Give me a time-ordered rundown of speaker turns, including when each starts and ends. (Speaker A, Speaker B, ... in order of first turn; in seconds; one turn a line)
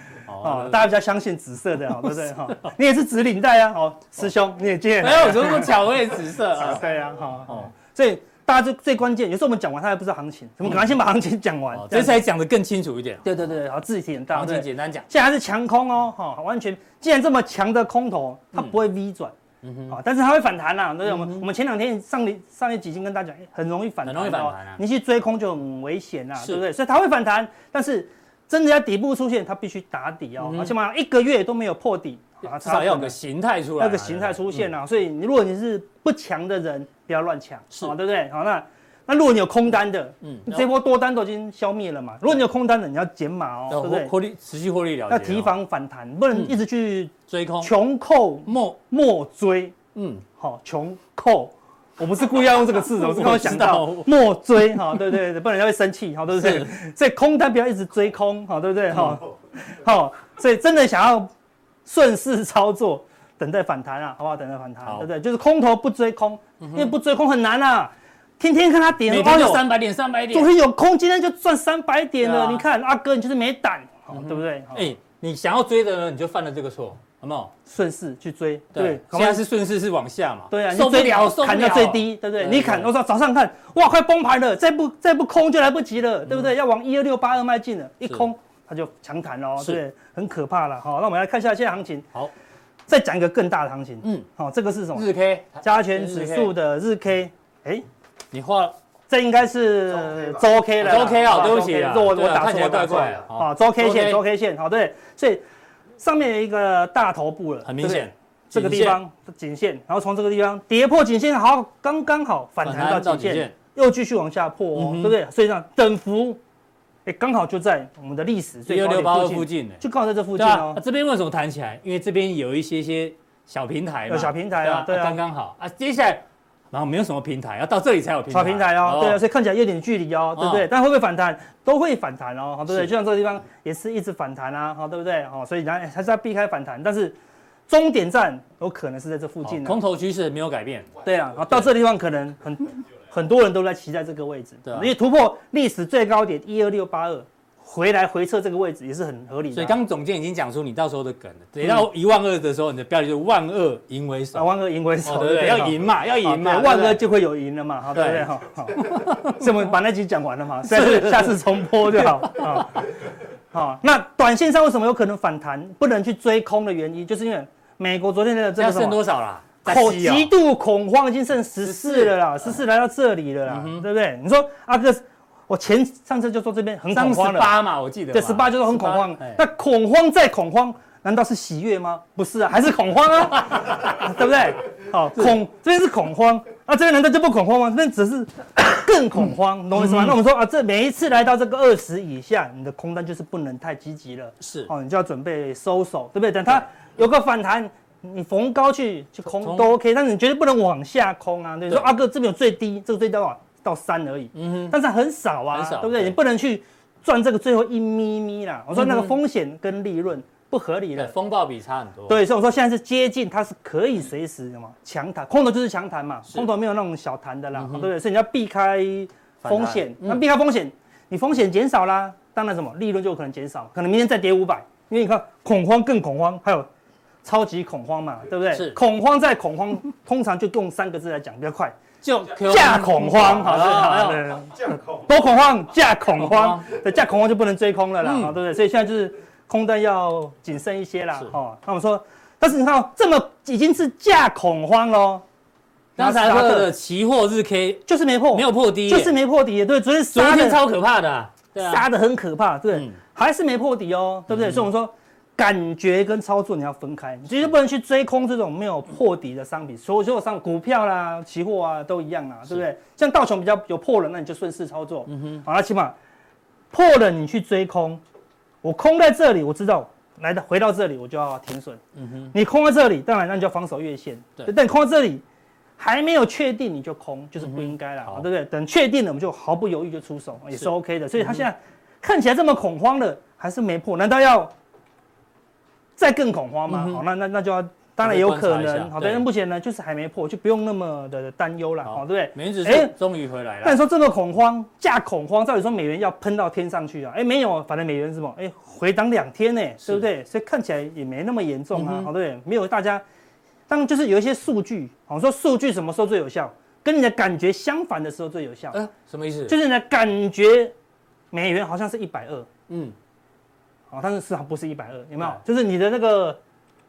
Speaker A: 0.3-0.9
Speaker B: 0.4-5.8
Speaker A: 5.0-6.8
Speaker B: 6.5-12.2
Speaker A: 11.8-13.2
Speaker B: 13.2-19.3
Speaker A: 14.3-15.1
Speaker A: 19.6-19.9
Speaker B: 19.9-33.1
Speaker A: 21.1-21.4
Speaker A: 24.0-24.8
Speaker A: 30.4-30.7
Speaker A: 32.5-34.6
Speaker B: 33.8-44.1
Speaker A: 40.2-40.7
Speaker A: 43.7-45.5
Speaker B: 45.1-49.8
Speaker A: 47.3-47.7
Speaker A: 48.5-48.8
Speaker A: 49.9-50.2
Speaker B: 50.4-61.3
Speaker A: 53.0-54.1
Speaker A: 56.3-56.8
Speaker A: 58.9-59.2
Speaker B: 61.9-69.6
Speaker A: 66.6-66.9
Speaker A: 69.1-70.5
Speaker B: 70.3-74.9
Speaker A: 72.2-72.6
Speaker A: 74.1-77.5
Speaker B: 77.7-79.4
Speaker A: 78.7-82.9
Speaker B: 80.5-92.1
Speaker B: 92.9-95.1
Speaker A: 94.9-96.5
Speaker B: 95.6-97.8
Speaker A: 98.3-98.7
Speaker B: 99.1-105.4
Speaker A: 100.8-104.2
Speaker B: 106.0-116.4
Speaker A: 107.6-109.0
Speaker A: 112.6-113.5
Speaker A: 114.7-115.1
Speaker B: 117.0-120.8
Speaker A: 118.7-119.8
Speaker A: 120.4-129.2
Speaker B: 124.1-125.2
Speaker B: 128.3-137.2
Speaker A: 130.3-130.7
Speaker B: 137.7-139.8
Speaker A: 139.4-140.9
Speaker B: 141.0-149.8
Speaker A: 144.7-144.9
Speaker A: 149.5-154.5
Speaker B: 154.3-162.9
Speaker A: 155.0-157.0
Speaker A: 157.9-158.2
Speaker A: 158.8-159.4
Speaker A: 160.7-161.4
Speaker A: 162.0-162.6
Speaker B: 163.5-169.0
Speaker A: 168.6-170.3
Speaker B: 169.6-177.6
Speaker A: 171.6-172.1
Speaker A: 173.5-173.8
Speaker A: 176.9-179.4
Speaker B: 178.1-211.1
Speaker A: 189.8-190.1
Speaker A: 194.4-194.7
Speaker A: 199.4-199.7
Speaker A: 204.3-204.8
Speaker A: 205.5-206.2
Speaker A: 208.8-209.1
Speaker A: 210.9-212.2
Speaker B: 212.1-226.7
Speaker A: 217.6-217.9
Speaker A: 219.4-220.2
Speaker B: 227.2-231.7
Speaker A: 228.5-228.8
Speaker A: 232.0-234.3
Speaker B: 232.3-245.2
Speaker A: 236.2-236.6
Speaker A: 238.0-238.3
Speaker A: 246.0-249.2
Speaker B: 246.0-246.7
Speaker B: 247.9-250.6
Speaker A: 250.1-251.8
Speaker B: 251.6-265.9
Speaker A: 254.3-254.6
Speaker A: 265.1-265.4
Speaker B: 266.7-268.0
Speaker B: 268.6-275.2
Speaker A: 272.0-272.3
Speaker B: 275.8-284.5
Speaker A: 277.4-278.2
Speaker B: 286.0-292.9
Speaker A: 286.7-287.0
Speaker A: 288.0-289.2
Speaker A: 291.8-293.8
Speaker B: 293.6-303.0
Speaker A: 301.7-302.1
Speaker B: 303.7-308.8
Speaker A: 308.7-309.5
Speaker B: 309.5-310.7
Speaker B: 311.3-312.5
Speaker A: 312.7-312.9
Speaker B: 313.9-316.4